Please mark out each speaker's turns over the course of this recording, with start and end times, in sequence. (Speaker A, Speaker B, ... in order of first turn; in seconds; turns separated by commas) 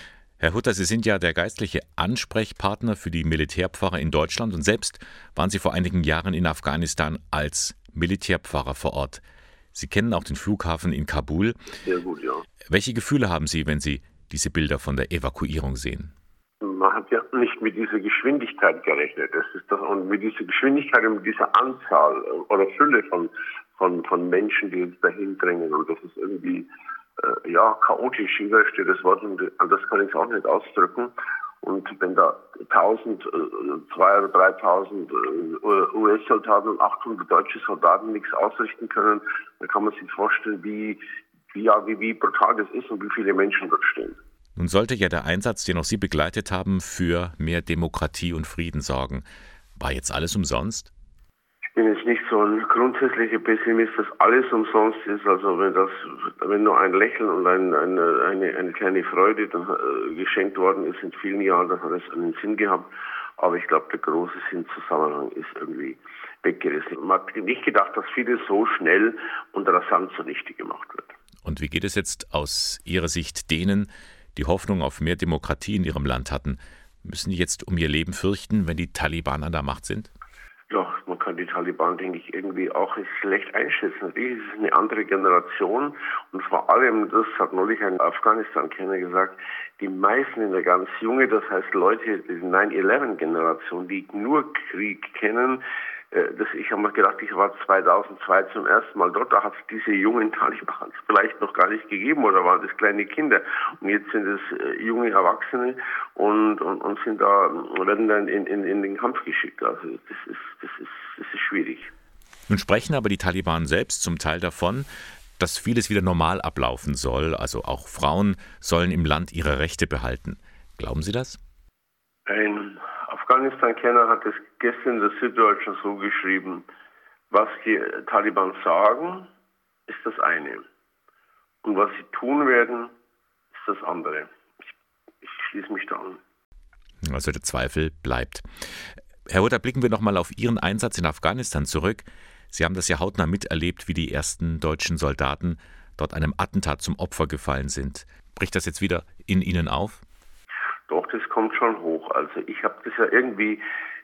Speaker A: 0.4-9.2, Speaker A: 9.7-11.7, Speaker B: 11.8-12.4, Speaker A: 12.7-16.1, Speaker B: 16.6-41.0, Speaker B: 41.5-44.2, Speaker A: 44.5-49.2, Speaker A: 49.8-50.9, Speaker B: 51.7-71.1, Speaker A: 71.4-80.1, Speaker B: 80.7-111.9, Speaker A: 112.5-114.9, Speaker A: 115.4-121.4, Speaker B: 122.3-126.7, Speaker B: 127.3-129.3, Speaker B: 129.9-130.6, Speaker B: 131.6-132.9, Speaker B: 133.5-134.7, Speaker B: 135.2-136.2, Speaker A: 137.0-138.4, Speaker A: 139.3-150.0, Speaker B: 150.9-153.6